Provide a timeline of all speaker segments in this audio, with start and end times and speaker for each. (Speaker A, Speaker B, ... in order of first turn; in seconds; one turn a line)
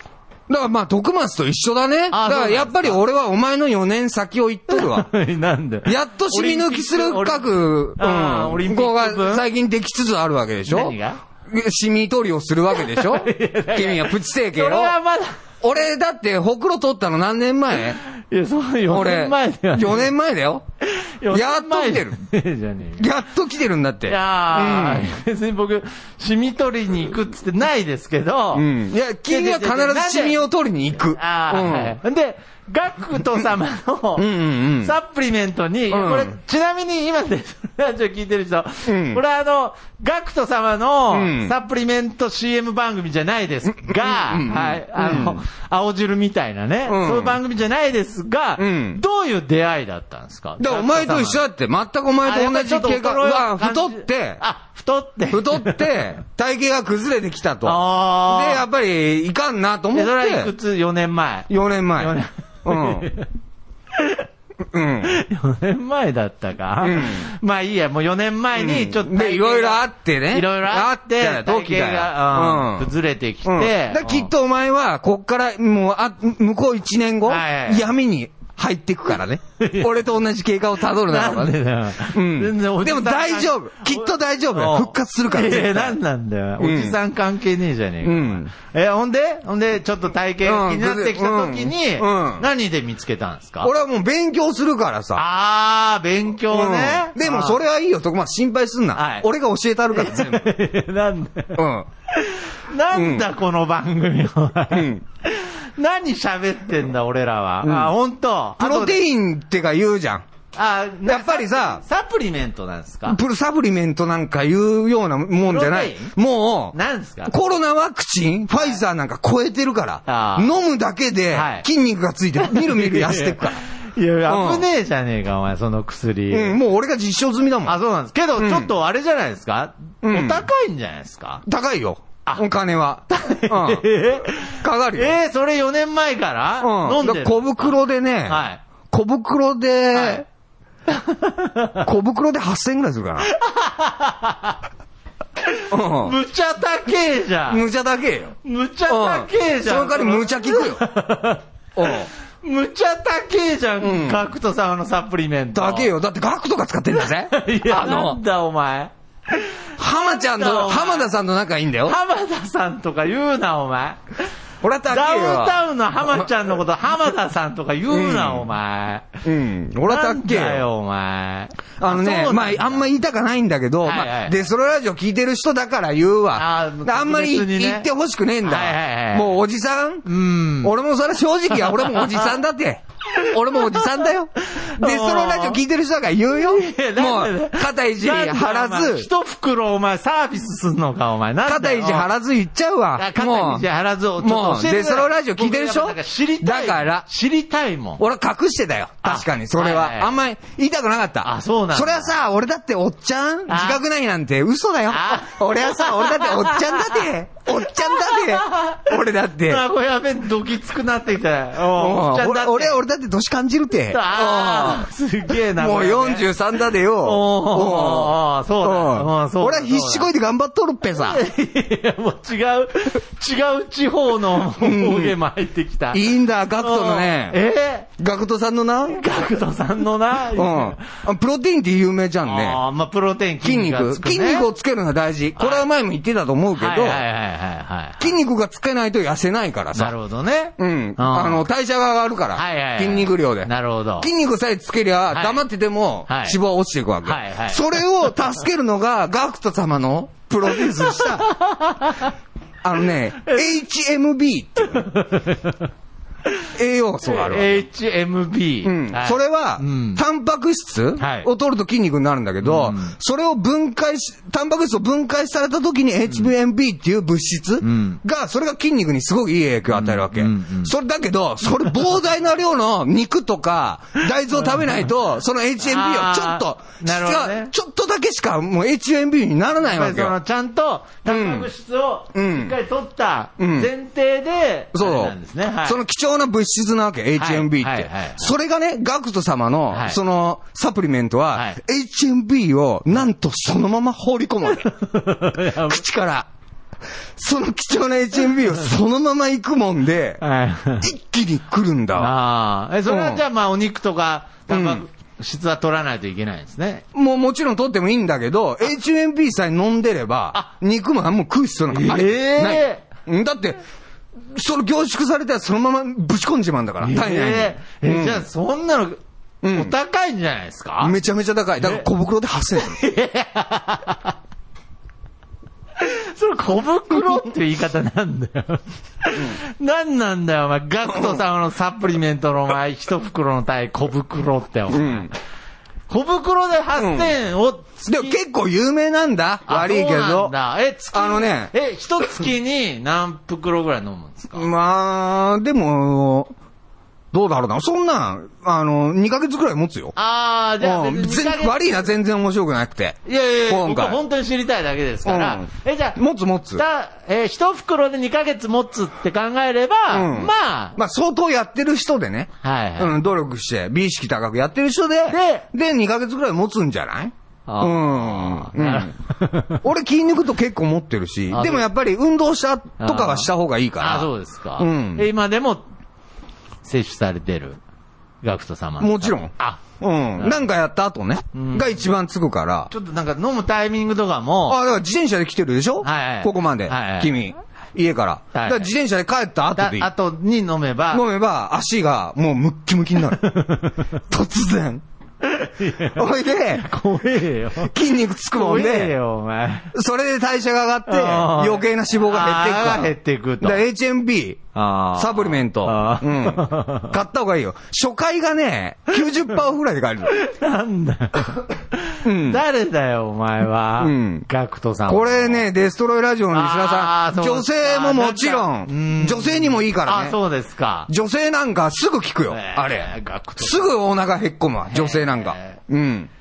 Speaker A: 0.5-5.1
Speaker B: 2.1-3.0
Speaker B: 4.7-9.4
Speaker A: 5.8-10.9
Speaker B: 10.7-11.2
Speaker A: 11.5-14.9
Speaker B: 12.7-15.4
Speaker A: 15.6-18.0
Speaker B: 18.0-20.1
Speaker A: 18.9-20.6
Speaker B: 20.8-23.1
Speaker A: 21.3-22.2
Speaker A: 23.0-25.1
Speaker B: 24.1-28.7
Speaker A: 28.5-31.9
Speaker B: 29.3-30.4
Speaker B: 31.1-34.3
Speaker A: 34.2-34.9
Speaker B: 34.8-51.4
Speaker A: 35.9-36.3
Speaker A: 38.9-39.2
Speaker A: 41.1-41.5
Speaker A: 43.7-45.4
Speaker A: 46.9-47.4
Speaker A: 48.6-49.0
Speaker A: 50.6-54.4
Speaker B: 52.2-55.9
Speaker A: 55.3-60.5
Speaker B: 57.6-58.6
Speaker B: 59.9-63.3
Speaker A: 61.5-63.1
Speaker B: 63.9-64.2
Speaker A: 64.7-65.2
Speaker B: 65.0-74.3
Speaker A: 66.8-67.3
Speaker A: 68.5-72.9
Speaker A: 73.4-86.0
Speaker B: 77.2-77.9
Speaker B: 79.6-79.9
Speaker B: 81.0-93.7
Speaker A: 86.6-87.0
Speaker A: 88.0-88.5
Speaker A: 90.4-92.5
Speaker A: 93.6-95.2
Speaker B: 95.1-97.6
Speaker A: 96.5-100.5
Speaker B: 98.9-99.2
Speaker B: 99.9-109.0
Speaker A: 101.5-101.9
Speaker A: 102.9-103.3
Speaker A: 104.7-105.0
Speaker A: 107.6-107.9
Speaker A: 108.6-110.2
Speaker B: 110.5-113.2
Speaker A: 111.0-111.8
Speaker A: 113.1-116.8
Speaker B: 115.4-116.1
Speaker B: 116.7-117.3
Speaker A: 117.3-123.6
Speaker B: 118.5-118.8
Speaker B: 120.0-120.5
Speaker B: 121.3-121.7
Speaker B: 122.4-126.6
Speaker A: 124.3-124.7
Speaker A: 126.3-127.8
Speaker B: 127.6-131.4
Speaker A: 128.4-128.7
Speaker A: 130.0-130.4
Speaker A: 131.4-135.1
Speaker B: 133.1-138.6
Speaker A: 136.6-140.2
Speaker B: 139.9-140.2
Speaker B: 140.9-141.8
Speaker A: 141.8-143.3
Speaker B: 143.2-144.6
Speaker B: 145.4-147.6
Speaker A: 145.7-146.2
Speaker A: 147.5-148.3
Speaker B: 148.4-155.9
Speaker A: 148.9-150.8
Speaker A: 151.8-152.1
Speaker A: 153.8-154.2
Speaker A: 155.5-158.2
Speaker B: 156.9-161.1
Speaker A: 159.8-162.0
Speaker B: 161.8-164.3
Speaker A: 164.6-166.3
Speaker B: 164.9-169.2
Speaker A: 167.9-168.5
Speaker A: 169.2-170.7
Speaker B: 169.8-172.9
Speaker A: 171.8-180.1
Speaker B: 173.8-174.3
Speaker B: 176.3-177.9
Speaker B: 178.4-179.4
Speaker B: 180.0-180.7
Speaker A: 180.6-189.1
Speaker B: 181.5-182.3
Speaker B: 183.1-185.6
Speaker B: 186.3-192.1
Speaker A: 191.4-193.7
Speaker B: 192.9-198.0
Speaker A: 194.2-197.1
Speaker A: 198.0-209.6
Speaker B: 199.0-200.1
Speaker B: 201.2-202.2
Speaker B: 203.5-203.8
Speaker B: 204.9-212.8
Speaker A: 211.6-221.2
Speaker B: 213.9-216.3
Speaker B: 217.0-220.1
Speaker B: 221.0-227.9
Speaker A: 224.6-225.2
Speaker A: 225.9-227.4
Speaker A: 228.0-229.0
Speaker B: 228.9-230.8
Speaker A: 230.3-232.6
Speaker B: 232.2-234.5
Speaker A: 233.4-237.0
Speaker B: 235.4-235.7
Speaker B: 236.5-238.1
Speaker A: 238.0-239.9
Speaker B: 239.7-241.4
Speaker A: 240.6-251.3
Speaker B: 242.3-244.1
Speaker B: 245.1-245.4
Speaker B: 246.1-246.4
Speaker B: 247.0-248.1
Speaker B: 250.5-252.1
Speaker A: 252.6-254.9
Speaker B: 253.2-253.5
Speaker B: 254.7-255.6
Speaker A: 256.5-257.6
Speaker B: 257.0-260.0
Speaker A: 258.6-280.1
Speaker B: 261.0-261.3
Speaker B: 262.4-262.9
Speaker B: 267.6-268.0
Speaker B: 269.7-270.7
Speaker B: 274.3-274.8
Speaker B: 275.6-277.5
Speaker B: 279.6-285.8
Speaker A: 281.1-281.5
Speaker A: 282.1-282.5
Speaker A: 283.4-283.7
Speaker A: 284.7-294.7
Speaker B: 287.2-288.3
Speaker B: 289.7-290.0
Speaker B: 291.3-291.6
Speaker B: 294.5-295.8
Speaker A: 295.6-296.3
Speaker A: 297.1-300.2
Speaker B: 300.2-300.9
Speaker A: 300.8-302.1
Speaker B: 301.9-306.8
Speaker A: 302.9-303.2
Speaker A: 304.5-304.8
Speaker A: 306.9-313.6
Speaker B: 311.7-312.8
Speaker A: 314.2-318.2
Speaker B: 316.8-319.0
Speaker A: 319.4-319.7
Speaker B: 319.5-321.0
Speaker A: 320.8-322.8
Speaker B: 321.6-321.9
Speaker B: 322.6-324.1
Speaker B: 325.8-335.1
Speaker A: 330.9-331.2
Speaker A: 334.7-335.1
Speaker B: 335.9-338.2
Speaker A: 336.8-337.1
Speaker A: 337.9-340.3
Speaker B: 339.5-344.5
Speaker A: 340.9-341.5
Speaker A: 344.4-346.3
Speaker A: 347.1-349.9
Speaker B: 349.9-351.6
Speaker A: 350.6-354.0
Speaker B: 353.1-356.0
Speaker A: 355.0-356.6
Speaker B: 356.5-360.8
Speaker A: 359.9-368.9
Speaker B: 362.4-362.9
Speaker B: 365.1-365.4
Speaker B: 367.5-369.6
Speaker A: 369.6-375.1
Speaker B: 371.3-371.6
Speaker B: 372.8-375.6
Speaker B: 376.6-377.6
Speaker B: 378.2-379.6
Speaker A: 378.8-382.7
Speaker B: 380.1-380.5
Speaker B: 381.3-381.8
Speaker B: 382.7-384.6
Speaker A: 384.5-389.9
Speaker B: 385.8-387.1
Speaker B: 388.3-388.7
Speaker B: 389.6-391.0
Speaker A: 390.9-393.3
Speaker B: 393.2-393.7
Speaker A: 394.1-394.8
Speaker B: 395.2-397.7
Speaker A: 395.9-396.7
Speaker A: 397.6-398.9
Speaker B: 398.3-399.7
Speaker A: 399.7-410.1
Speaker B: 400.9-403.6
Speaker B: 404.5-406.9
Speaker B: 410.1-415.5
Speaker A: 412.0-412.4
Speaker A: 413.8-414.2
Speaker A: 414.9-420.2
Speaker B: 416.3-420.9
Speaker A: 420.9-426.1
Speaker B: 422.3-423.7
Speaker B: 424.7-425.6